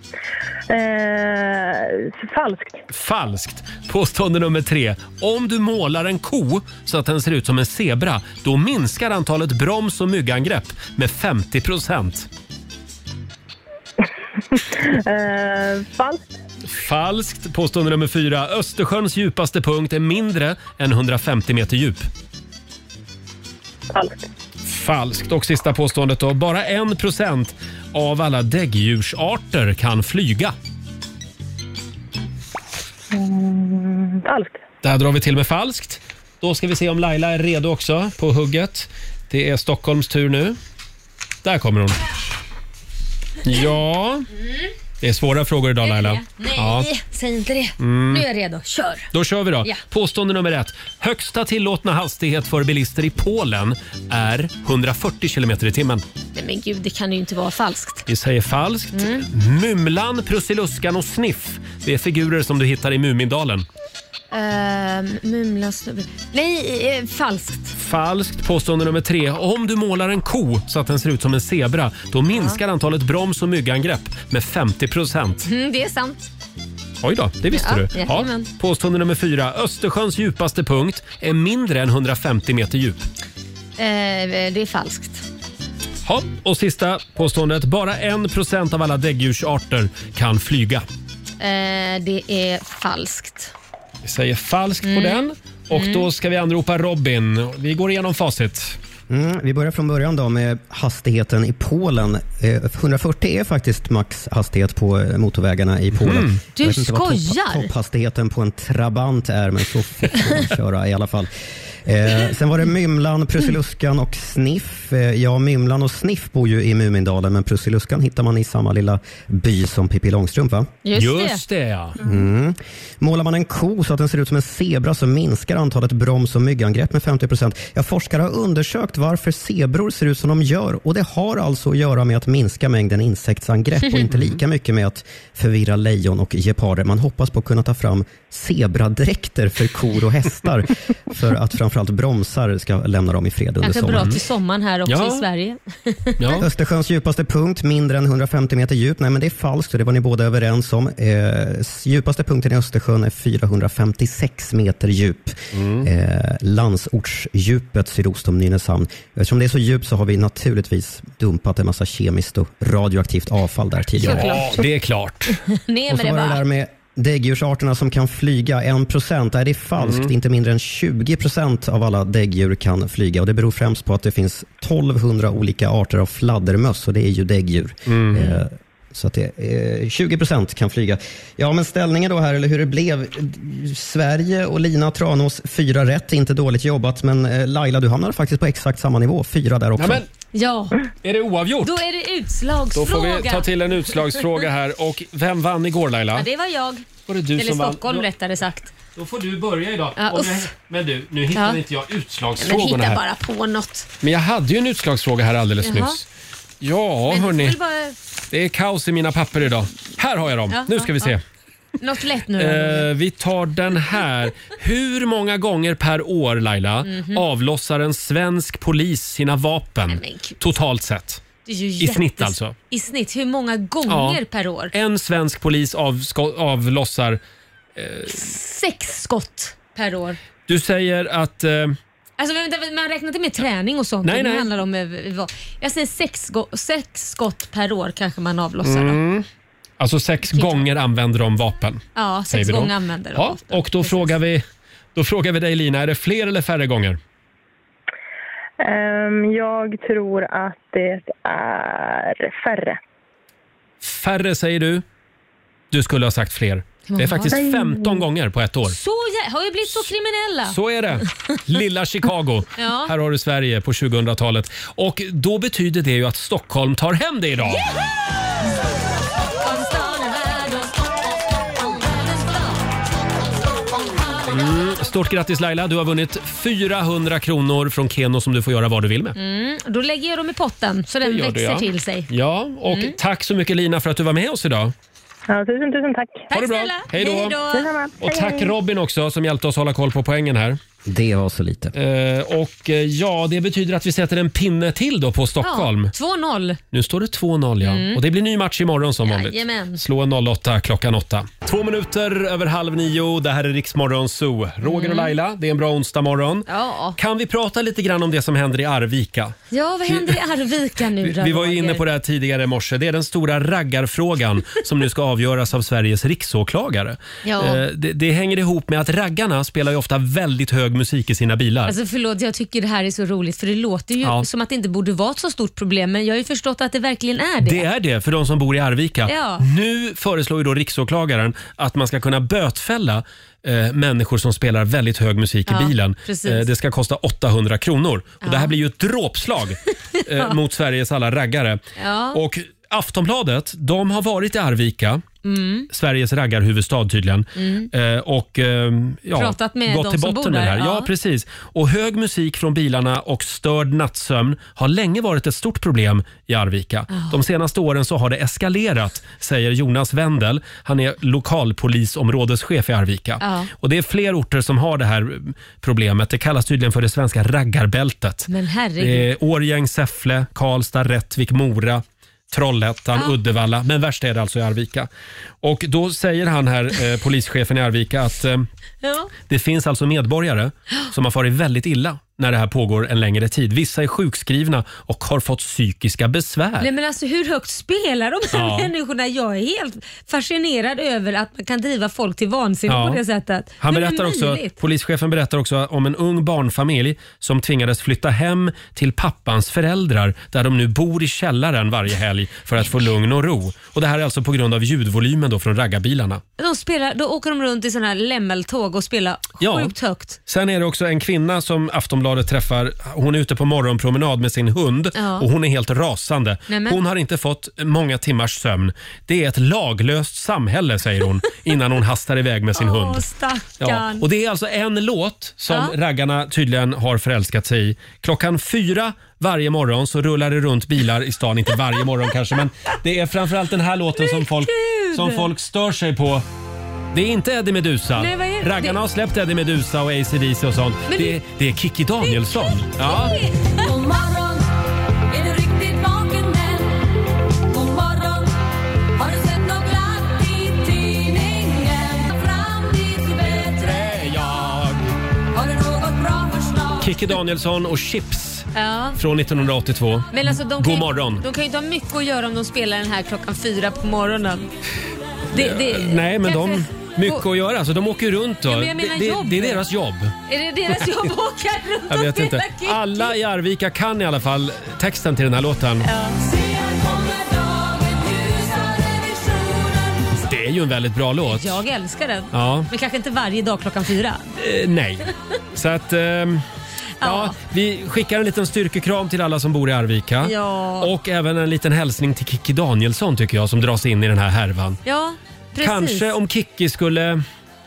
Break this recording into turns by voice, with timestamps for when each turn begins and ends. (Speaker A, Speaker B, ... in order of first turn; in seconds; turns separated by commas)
Speaker A: 0.7-2.8, Speaker B: 2.9-12.3, Speaker A: 14.5-16.4, Speaker B: 16.7-22.1, Speaker A: 23.9-24.3, Speaker B: 24.7-30.5, Speaker A: 33.1-34.6, Speaker B: 34.8-40.6, Speaker B: 41.4-42.1, Speaker B: 43.4-44.3, Speaker B: 45.0-46.9, Speaker C: 45.8-49.1, Speaker B: 47.8-48.3, Speaker B: 49.1-56.0, Speaker C: 56.4-58.1, Speaker B: 58.1-63.7, Speaker C: 58.9-59.3, Speaker C: 64.3-67.8, Speaker B: 67.8-75.5, Speaker C: 72.3-72.6, Speaker C: 75.5-76.3, Speaker B: 77.0-83.0, Speaker C: 77.5-78.5, Speaker C: 83.8-85.2, Speaker B: 86.0-90.8, Speaker C: 91.4-93.5, Speaker B: 94.0-98.8, Speaker C: 94.8-95.2, Speaker C: 95.7-96.1, Speaker D: 99.1-111.3, Speaker B: 106.0-106.4, Speaker C: 106.6-107.7, Speaker D: 111.8-120.8, Speaker C: 120.8-121.4, Speaker B: 120.9-122.0, Speaker D: 122.0-144.1, Speaker C: 143.6-146.4, Speaker B: 143.9-144.2, Speaker B: 144.9-145.2, Speaker B: 146.2-146.5, Speaker D: 146.4-164.4, Speaker B: 155.5-155.9, Speaker C: 164.0-164.6, Speaker B: 164.0-165.4, Speaker C: 165.5-166.4, Speaker D: 165.9-190.0, Speaker B: 169.8-170.1, Speaker B: 177.9-178.4, Speaker B: 189.8-190.1, Speaker C: 190.3-190.8, Speaker B: 191.0-191.8, Speaker C: 191.6-194.2, Speaker B: 192.7-196.3, Speaker C: 196.2-196.8, Speaker B: 197.1-198.1, Speaker C: 197.4-198.7, Speaker B: 198.9-203.0, Speaker C: 200.0-200.5, Speaker C: 201.3-201.6, Speaker C: 202.4-203.9, Speaker B: 204.0-206.1, Speaker C: 205.6-206.0, Speaker B: 206.6-207.6, Speaker C: 207.1-208.0, Speaker B: 208.3-211.2, Speaker C: 210.5-211.1, Speaker C: 211.8-212.9, Speaker B: 212.4-221.2, Speaker C: 216.8-217.2, Speaker C: 219.9-220.4, Speaker C: 221.4-224.7, Speaker B: 221.8-222.6, Speaker B: 223.9-224.2, Speaker B: 224.7-227.2, Speaker B: 227.8-228.3, Speaker C: 228.1-230.2, Speaker B: 230.5-231.8, Speaker C: 232.2-239.0, Speaker B: 234.0-234.5, Speaker B: 238.6-239.3, Speaker B: 239.8-244.4, Speaker C: 240.3-240.6, Speaker C: 241.9-244.2, Speaker B: 244.9-247.0, Speaker A: 248.6-252.8, Speaker B: 253.8-254.8, Speaker B: 255.7-258.8, Speaker C: 256.9-257.4, Speaker A: 257.3-258.1, Speaker C: 258.7-260.6, Speaker B: 260.5-267.6, Speaker C: 262.6-262.9, Speaker C: 267.5-267.8, Speaker C: 269.4-270.8, Speaker C: 271.6-272.6, Speaker B: 274.3-279.2, Speaker C: 279.2-282.1, Speaker B: 281.0-284.7, Speaker C: 282.7-283.0, Speaker A: 285.3-286.3, Speaker C: 286.3-287.7, Speaker B: 286.3-287.4, Speaker A: 287.5-288.5, Speaker B: 288.0-290.6, Speaker D: 290.9-291.7, Speaker B: 291.7-295.9, Speaker C: 295.4-296.6, Speaker B: 296.7-309.4, Speaker C: 297.6-298.0, Speaker C: 299.0-299.8, Speaker C: 304.6-305.1, Speaker C: 306.5-307.0, Speaker C: 309.5-311.8, Speaker B: 309.9-310.2, Speaker B: 311.0-321.8, Speaker C: 317.2-317.6, Speaker C: 321.7-327.6, Speaker B: 327.4-341.6, Speaker C: 329.1-329.5, Speaker C: 335.5-336.5, Speaker C: 338.2-338.5, Speaker C: 339.9-340.3, Speaker C: 341.8-342.2, Speaker B: 342.1-345.1, Speaker C: 345.2-345.7, Speaker B: 345.7-374.9, Speaker C: 347.4-347.7, Speaker C: 349.1-350.9, Speaker C: 356.9-357.2, Speaker C: 363.2-363.5, Speaker C: 368.3-369.1, Speaker B: 375.4-378.5, Speaker C: 378.8-379.1, Speaker B: 379.3-386.7, Speaker C: 386.6-394.6, Speaker B: 388.3-388.7, Speaker B: 392.7-393.0, Speaker B: 393.6-406.2, Speaker C: 406.4-410.2, Speaker B: 409.4-409.7, Speaker B: 410.3-423.1, Speaker C: 414.9-415.3, Speaker C: 416.5-416.8, Speaker C: 422.6-424.1, Speaker B: 423.6-436.3, Speaker C: 434.0-435.3, Speaker B: 436.9-443.2, Speaker C: 438.0-438.8, Speaker C: 440.9-441.2, Speaker C: 442.0-443.8, Speaker E: 443.6-444.4, Speaker E: 445.1-446.8, Speaker E: 447.5-448.3, Speaker E: 449.0-452.0, Speaker C: 452.0-453.8, Speaker B: 453.5-454.9, Speaker E: 455.3-456.8, Speaker B: 456.8-461.2, Speaker C: 458.6-459.0, Speaker C: 460.1-464.5, Speaker B: 465.3-470.2, Speaker C: 465.3-467.2, Speaker C: 468.5-469.6, Speaker C: 470.3-473.1, Speaker B: 471.9-475.9, Speaker C: 475.8-476.3, Speaker E: 477.0-478.6, Speaker C: 478.7-479.2, Speaker E: 479.4-479.6, Speaker B: 480.1-481.6, Speaker C: 481.3-484.2, Speaker B: 482.3-482.7, Speaker B: 484.4-486.4, Speaker C: 487.0-487.4, Speaker B: 487.0-494.8, Speaker C: 490.2-490.9, Speaker C: 494.9-496.1, Speaker B: 495.6-497.2